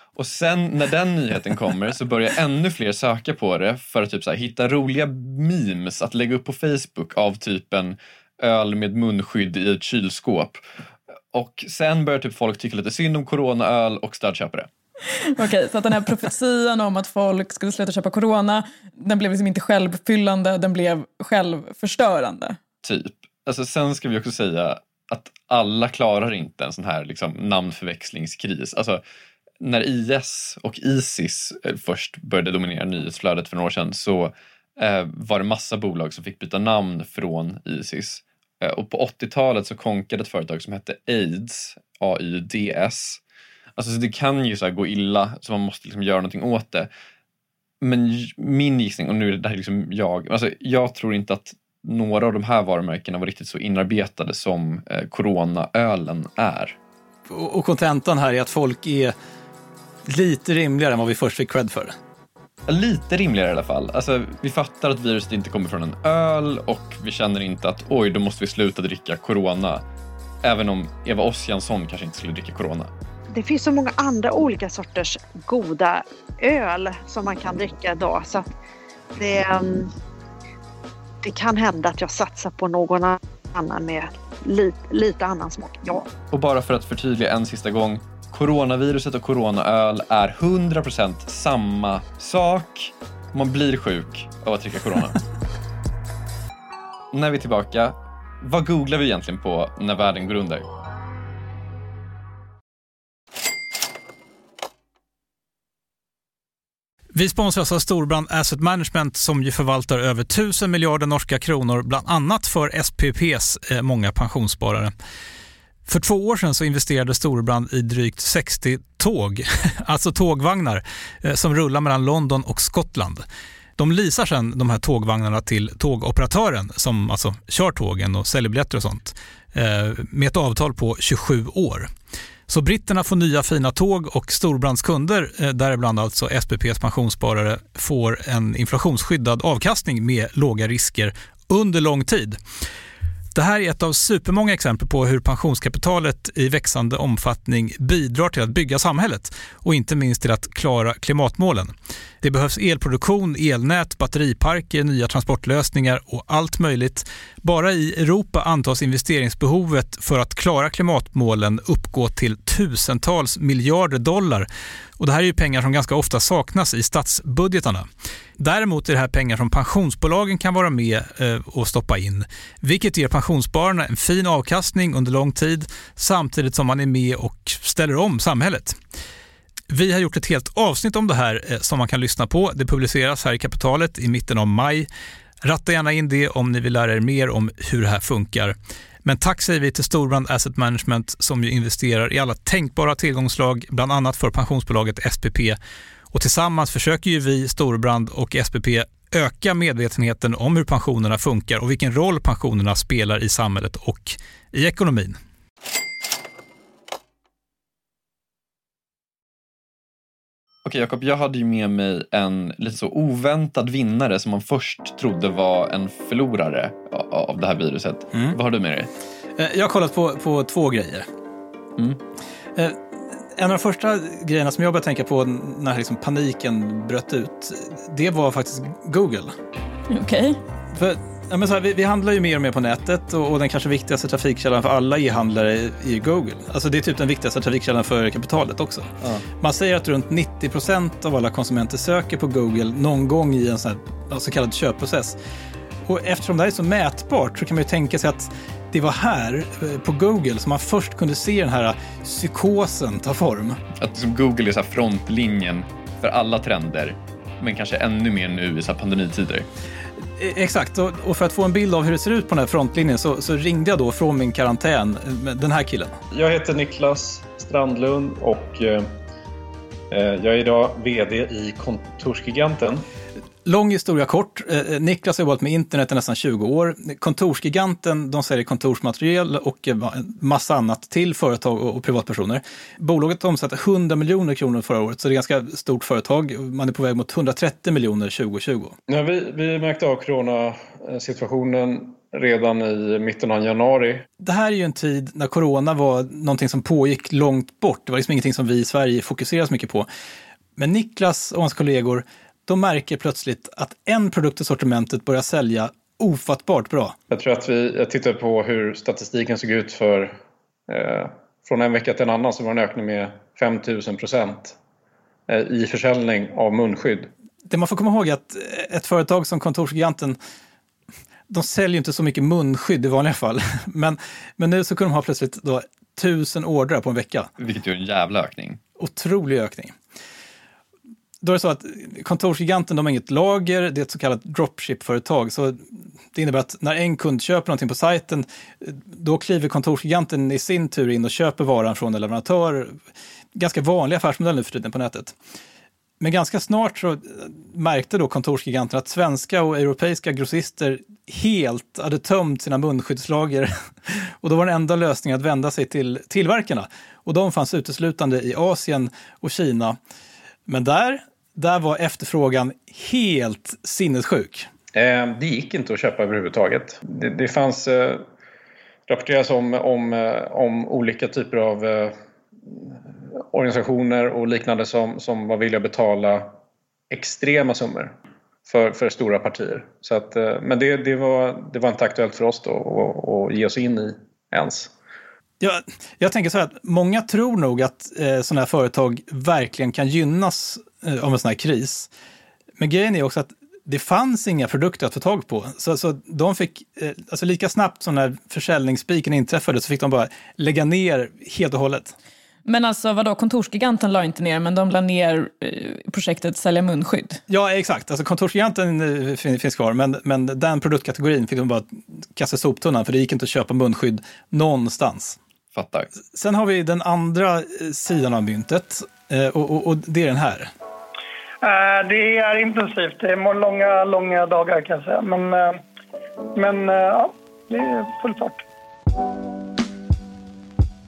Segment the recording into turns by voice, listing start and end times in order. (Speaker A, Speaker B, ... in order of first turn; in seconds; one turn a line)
Speaker A: 0.2-10.6
Speaker A: 11.3-14.7
Speaker B: 15.2-22.6
Speaker A: 22.8-29.0
Speaker A: 29.6-43.2
Speaker A: 43.8-46.9
Speaker A: 47.8-56.8
Speaker C: 57.3-59.1
Speaker C: 60.1-61.9
Speaker A: 62.7-69.8
Speaker A: 70.4-72.9
Speaker D: 73.3-78.5
Speaker D: 79.2-79.9
Speaker D: 81.2-86.1
Speaker A: 86.3-95.2
Speaker A: 97.1-100.7
Speaker C: 107.1-114.9
Speaker C: 115.9-123.2
Speaker C: 123.8-131.9
Speaker C: 132.5-142.4
Speaker C: 143.3-164.5
Speaker C: 165.0-167.9
Speaker C: 168.4-178.8
Speaker C: 179.7-184.9
Speaker C: 185.4-195.6
Speaker C: 196.1-205.2
Speaker A: 210.7-218.9
Speaker C: 218.1-218.4
Speaker C: 219.4-221.1
Speaker C: 223.3-229.3
Speaker B: 229.9-230.4
Speaker C: 230.7-245.2
Speaker C: 245.9-253.6
Speaker A: 253.8-259.5
Speaker C: 260.2-265.9
Speaker E: 266.1-268.9
Speaker E: 269.9-272.8
Speaker C: 273.4-288.8
Speaker E: 288.9-294.1
Speaker C: 294.2-299.9
Speaker C: 300.6-307.0
Speaker E: 307.1-310.2
Speaker E: 310.7-314.6
Speaker E: 315.3-317.1
Speaker C: 317.5-320.2
Speaker C: 321.3-327.3
Speaker A: 327.4-328.6
Speaker C: 328.8-329.8
Speaker C: 331.2-342.8
Speaker C: 343.4-345.1
Speaker C: 346.0-359.8
Speaker C: 360.5-364.5
Speaker E: 364.7-368.1
Speaker E: 368.9-372.0
Speaker E: 372.5-372.8
Speaker E: 373.3-376.3
Speaker E: 376.9-377.9
Speaker E: 378.5-384.7
Speaker C: 385.4-391.9
Speaker C: 392.6-401.9
Speaker B: 402.5-407.2
Speaker C: 407.3-415.2
Speaker A: 415.5-415.9
Speaker C: 416.1-420.5
Speaker F: 421.4-425.6
Speaker F: 426.4-428.4